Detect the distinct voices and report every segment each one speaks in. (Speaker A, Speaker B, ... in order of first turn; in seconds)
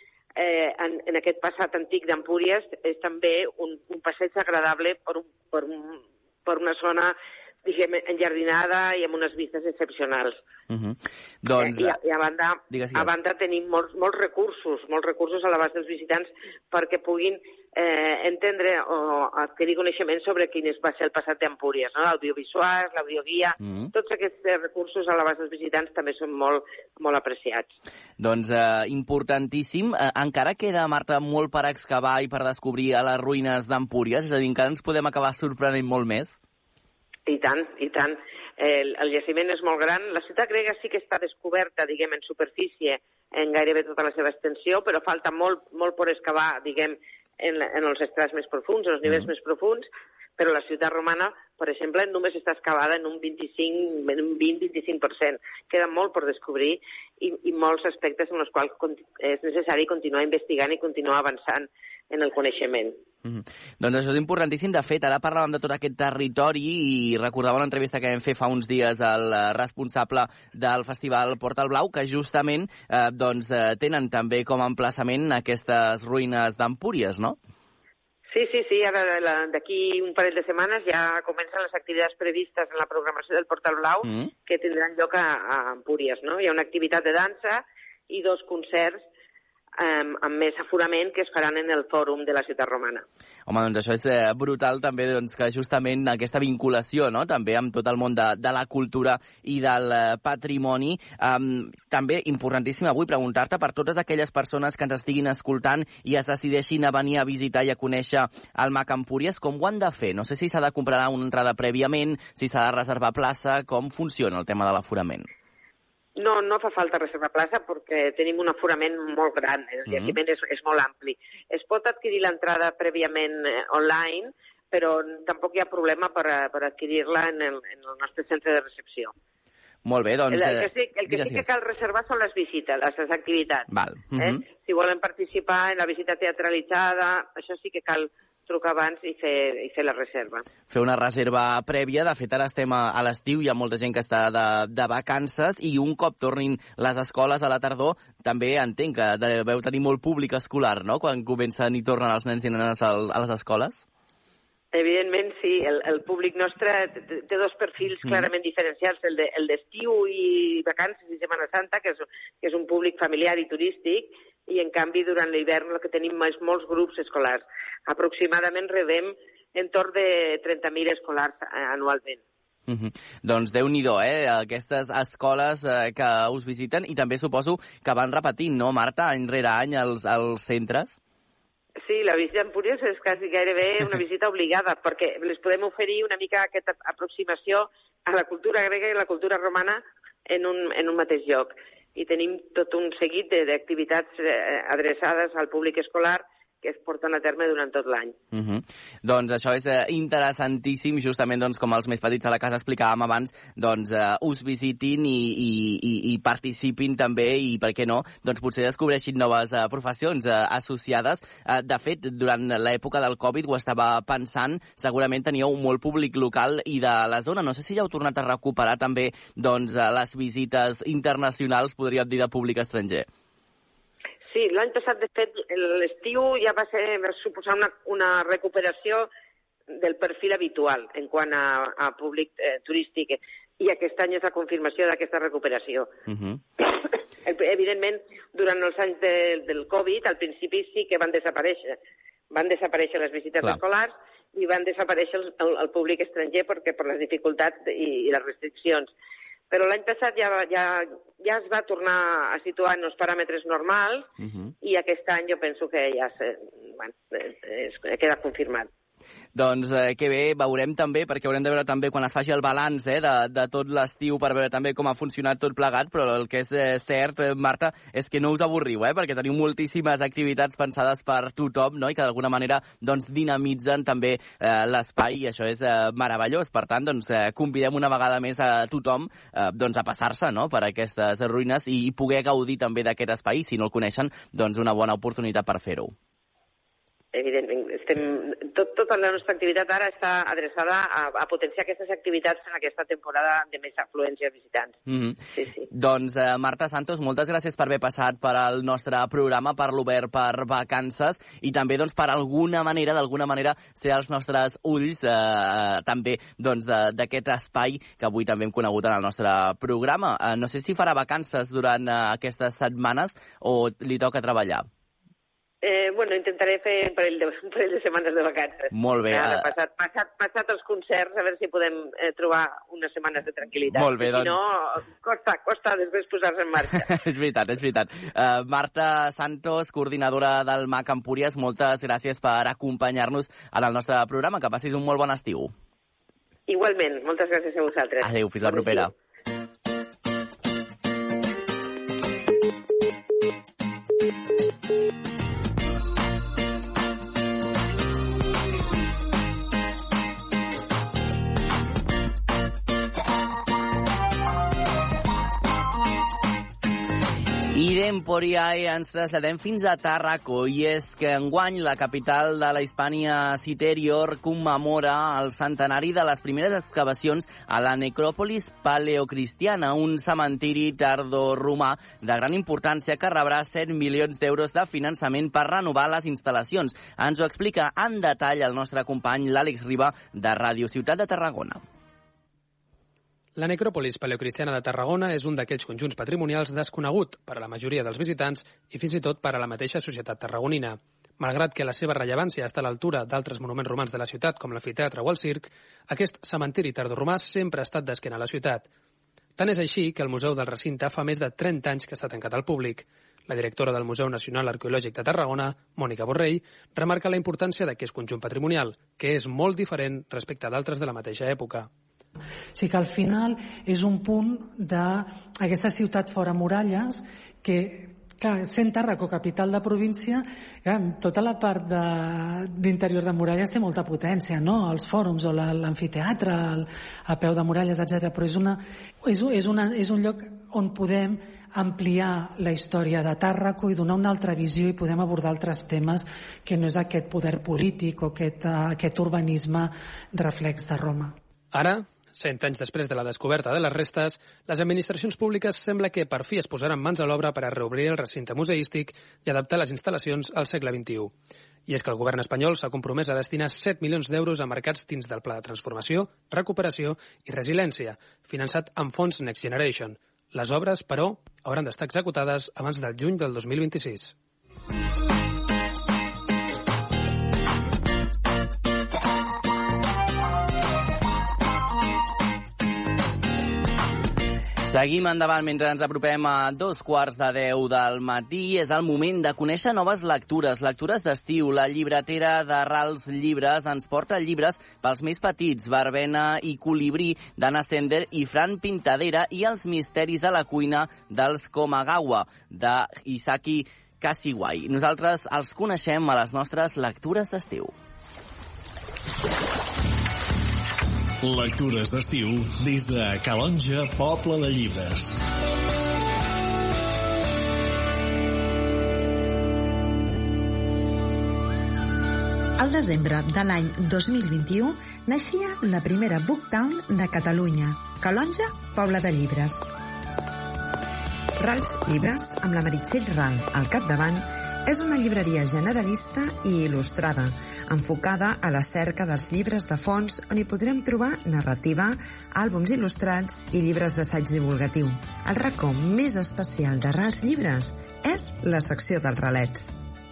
Speaker A: 0.3-10.3, 11.5-27.7, 37.3-49.9, 50.4-63.0, 78.3-89.0, 89.8-93.0, 116.2-129.1, 130.3-140.4, 154.7-172.2, 181.8-198.2, 224.3-229.1, 229.7-235.9, 237.2-241.8, 242.3-248.9, 249.5-254.1, 254.6-258.7, 287.1-294.8, 295.4-295.7, 315.6-326.9, 336.5-338.9
Speaker B: 10.7-12.0, 12.7-13.1, 23.6-23.9, 28.2-36.4, 63.2-77.4, 84.0-84.3, 93.5-115.3, 119.9-120.2, 129.8-131.4, 133.7-134.4, 140.7-153.8, 158.0-158.3, 172.7-181.0, 198.3-223.1, 236.1-236.4, 254.2-254.5, 259.3-285.9, 294.9-295.2, 295.7-314.7, 318.7-319.5, 323.7-324.4, 326.8-335.5, 338.0-338.9, 357.5-381.6, 474.7-497.7
Speaker C: 383.4-398.7, 399.4-411.7, 441.5-451.1, 451.7-464.1
Speaker D: 412.5-441.1
Speaker E: 501.2-505.2
Speaker F: 512.6-519.7, 521.4-539.8